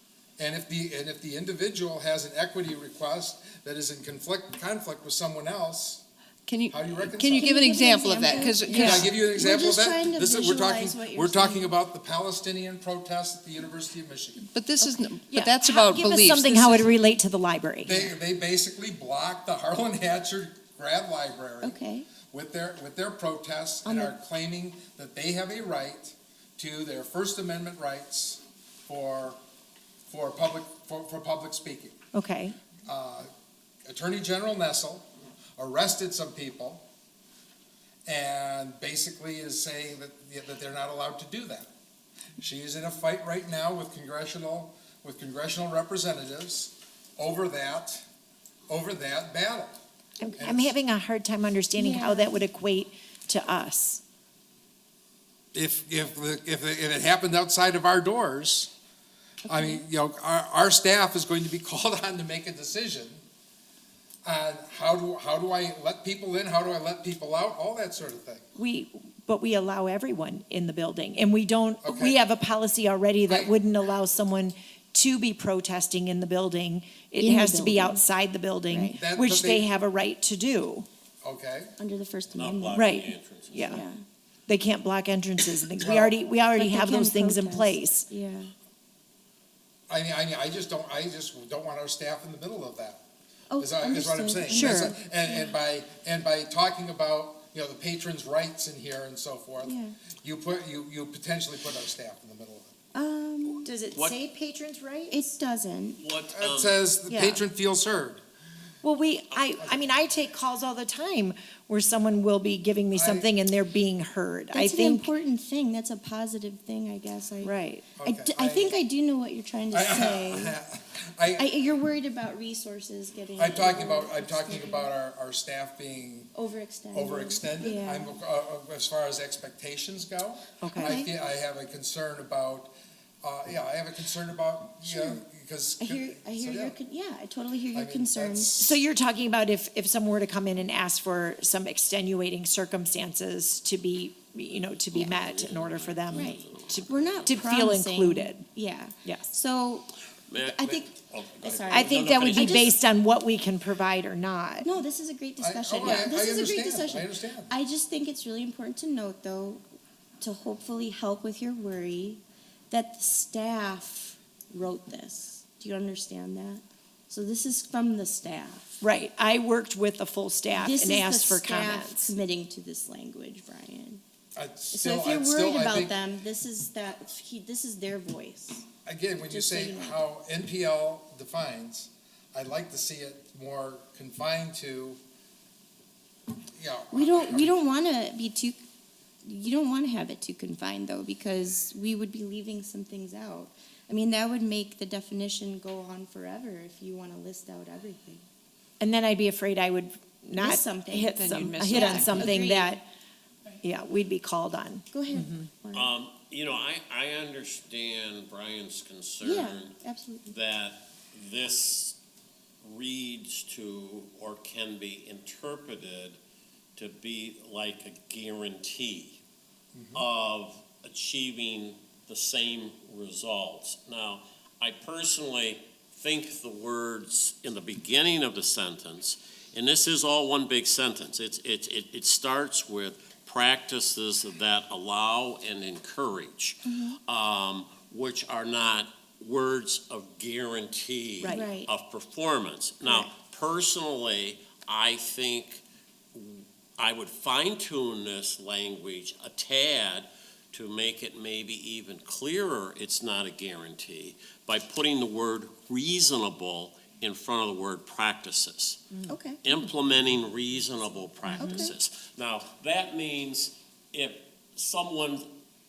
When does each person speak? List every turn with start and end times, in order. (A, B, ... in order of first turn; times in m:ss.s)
0:00.4-0:06.0 A
0:06.5-0:09.1 B
0:06.7-0:14.5 A
0:07.4-0:11.7 C
0:14.5-0:17.0 B
0:14.8-0:18.1 D
0:17.8-0:21.8 A
0:21.6-0:22.1 C
0:22.3-0:29.4 A
0:23.8-0:24.2 C
0:30.1-0:32.0 A
0:32.1-0:32.6 D
0:32.8-0:33.3 A
0:33.8-0:36.9 A
0:38.1-0:41.7 A
0:42.4-0:48.0 A
0:48.7-0:49.8 A
0:50.2-0:54.0 D
0:50.4-0:50.8 A
0:51.8-0:52.4 C
0:55.5-0:58.7 A
0:59.5-1:03.2 A
0:59.5-0:59.8 D
1:04.2-1:08.4 A
1:08.6-1:20.9 D
1:11.8-1:12.2 A
1:13.3-1:13.5 A
1:17.2-1:18.0 C
1:18.7-1:19.0 C
1:19.0-1:19.7 A
1:21.2-1:21.7 A
1:21.8-1:23.1 C
1:22.4-1:23.8 E
1:22.7-1:23.8 D
1:23.6-1:24.0 C
1:24.5-1:28.1 D
1:25.8-1:26.2 A
1:26.5-1:28.5 C
1:29.9-1:33.0 A
1:33.5-1:35.4 C
1:33.6-1:42.7 A
1:34.5-1:35.0 D
1:39.6-1:40.0 C
1:42.9-1:43.7 C
1:43.6-1:45.3 D
1:45.1-1:46.0 C
1:46.0-1:46.8 E
1:46.3-1:48.2 A
1:47.1-1:47.5 C
1:48.8-1:55.1 D
1:49.6-1:49.9 A
1:52.9-1:53.3 A
1:54.5-2:00.6 C
1:57.4-1:57.9 D
1:58.0-1:58.8 A
1:59.7-2:01.5 A
2:01.4-2:04.9 C
2:03.4-2:06.3 A
2:06.3-2:08.2 C
2:06.9-2:16.8 A
2:10.6-2:11.0 D
2:10.8-2:11.1 C
2:14.8-2:15.2 C
2:15.8-2:18.6 C
2:17.7-2:18.8 A
2:18.6-2:28.5 D
2:24.9-2:27.4 E
2:26.1-2:32.7 C
2:30.3-2:32.8 E
2:31.7-2:34.7 D
2:34.6-2:39.6 C
2:35.4-2:37.5 A
2:40.2-2:48.8 C
2:48.8-2:52.1 D
2:50.6-2:54.0 C
2:54.4-2:56.0 A
2:54.7-2:58.6 C
2:58.8-3:05.0 A
2:59.2-3:00.0 C
3:06.6-3:07.6 A
3:06.9-3:08.6 C
3:09.2-3:18.2 C
3:18.8-3:22.8 D
3:20.4-3:22.8 C
3:21.1-3:22.4 B
3:23.6-3:25.5 D
3:24.9-3:25.9 C
3:25.7-3:32.0 E
3:29.2-3:30.4 C
3:32.6-3:36.2 E
3:36.8-3:39.2 E
3:39.8-3:40.0 A
3:39.9-4:05.6 E
3:56.6-3:57.0 C
4:01.2-4:01.5 D
4:01.3-4:01.7 C
4:06.1-4:25.3 E
4:19.1-4:19.4 C
4:21.3-4:21.7 D
4:21.3-4:21.7 C